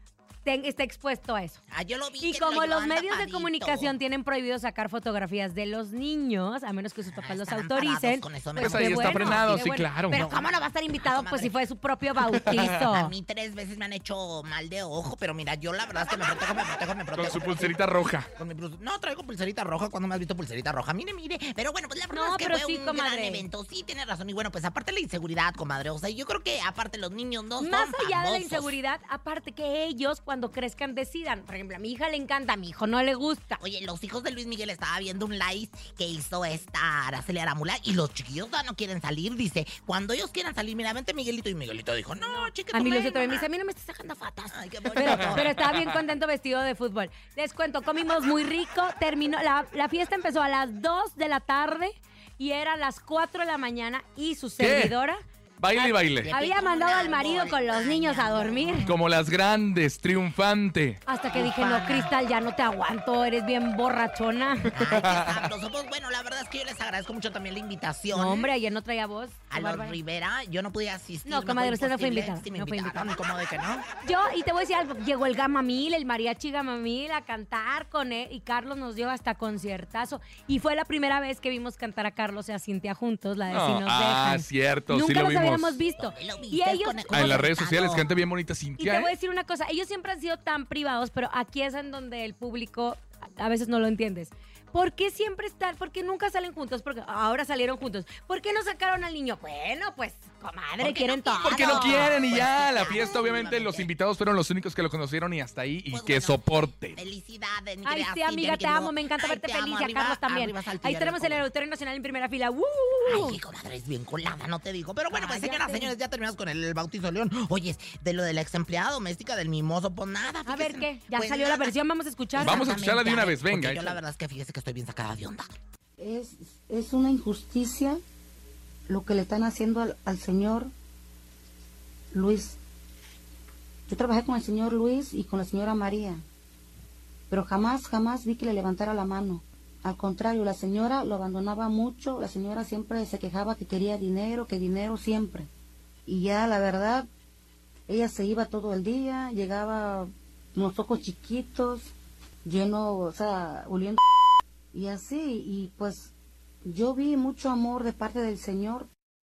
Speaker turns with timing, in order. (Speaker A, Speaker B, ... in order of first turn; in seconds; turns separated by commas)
Speaker A: 0.5-1.6, Speaker B: 1.7-3.9, Speaker A: 2.2-13.1, Speaker B: 7.1-11.5, Speaker C: 8.6-10.2, Speaker B: 12.6-17.8, Speaker C: 17.1-18.3, Speaker B: 18.4-28.7, Speaker A: 22.1-23.4, Speaker A: 27.6-33.6, Speaker B: 33.6-43.5, Speaker A: 42.3-55.2, Speaker B: 44.5-45.8, Speaker C: 54.6-54.9, Speaker C: 55.6-56.3, Speaker B: 55.8-58.9, Speaker A: 56.3-58.9, Speaker C: 58.9-61.0, Speaker A: 61.1-64.8, Speaker B: 61.3-62.1, Speaker B: 64.7-68.5, Speaker C: 64.8-65.5, Speaker A: 68.1-70.0, Speaker B: 69.5-73.8, Speaker A: 71.3-73.2, Speaker A: 74.0-87.4, Speaker C: 83.5-85.8, Speaker B: 86.0-88.0, Speaker C: 87.1-89.1, Speaker A: 88.8-102.2, Speaker B: 100.8-103.9, Speaker C: 101.4-107.0, Speaker B: 105.9-111.5, Speaker A: 107.8-113.4, Speaker B: 113.1-121.8, Speaker A: 115.1-115.9, Speaker A: 120.5-122.7, Speaker B: 122.3-125.5, Speaker C: 122.4-124.0, Speaker D: 126.0-128.0, Speaker D: 128.9-130.7, Speaker D: 132.1-132.6, Speaker D: 133.9-136.2, Speaker D: 137.3-145.5, Speaker D: 146.1-147.1, Speaker D: 147.9-151.9, Speaker D: 152.4-154.0, Speaker D: 154.7-156.1, Speaker D: 156.7-158.9